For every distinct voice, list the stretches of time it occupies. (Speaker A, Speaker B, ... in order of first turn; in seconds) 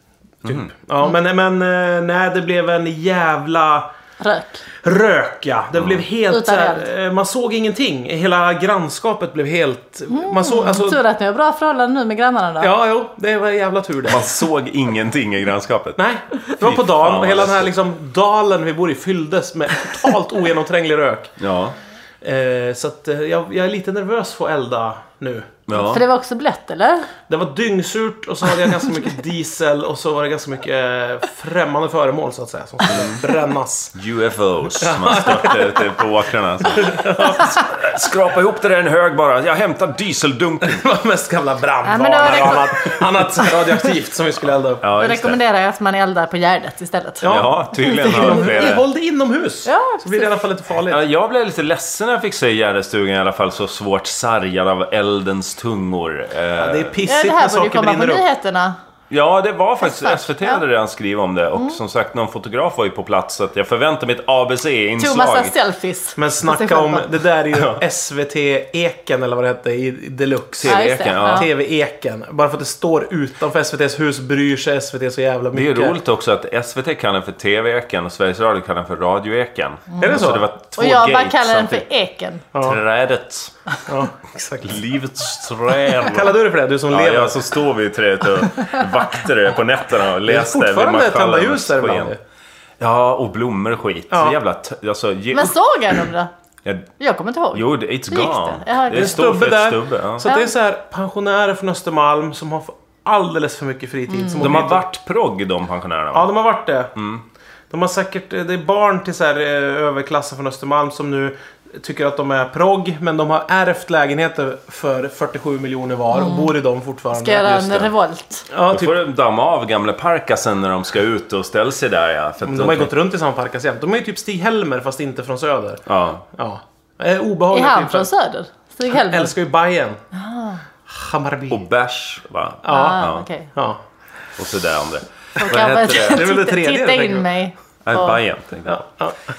Speaker A: 0.4-3.9, 4.8-11.0, 12.6-14.3, 16.0-21.3, 22.2-25.6, 27.3-33.9, 34.8-35.8, 36.7-37.6, 40.7-44.9, 47.2-51.0, 56.6-58.2, 66.2-76.0, 80.0-80.5, 82.5-82.8, 83.9-84.8, 86.0-87.4, 90.2-92.2, 94.1-94.4, 98.9-104.8, 106.1-106.9, 107.7-117.6, 118.5-119.0, 122.5-128.1, 128.9-130.0, 130.9-131.7, 132.7-133.8, 135.9-137.3, 138.7-139.2
Speaker B: 0.5-0.7, 5.8-6.0, 14.1-16.0, 16.6-17.7, 21.4-21.8, 25.7-26.0, 32.9-33.2, 34.0-40.9, 44.8-45.4, 47.2-48.8, 50.9-57.0, 59.1-65.5, 67.5-67.8, 70.6-71.5, 75.5-81.8, 82.6-83.5, 84.6-86.3, 86.9-92.1, 92.8-95.6, 97.5-100.3, 104.4-106.3, 107.0-107.2, 117.4-117.9, 118.7-122.9, 125.9-126.2, 131.5-133.3, 134.4-136.3, 137.8-138.8
Speaker C: 4.2-4.6, 6.3-6.9, 10.1-12.7, 25.7-27.1, 41.9-43.0, 45.0-48.7, 49.6-50.4, 57.0-58.8, 59.8-60.6, 65.0-67.1, 70.6-71.5, 80.8-82.5, 95.3-96.3, 97.0-99.3, 100.2-100.5, 104.1-104.4, 116.1-116.5, 117.1-118.5, 127.5-129.3, 130.1-130.6, 132.7-133.5, 135.4-138.2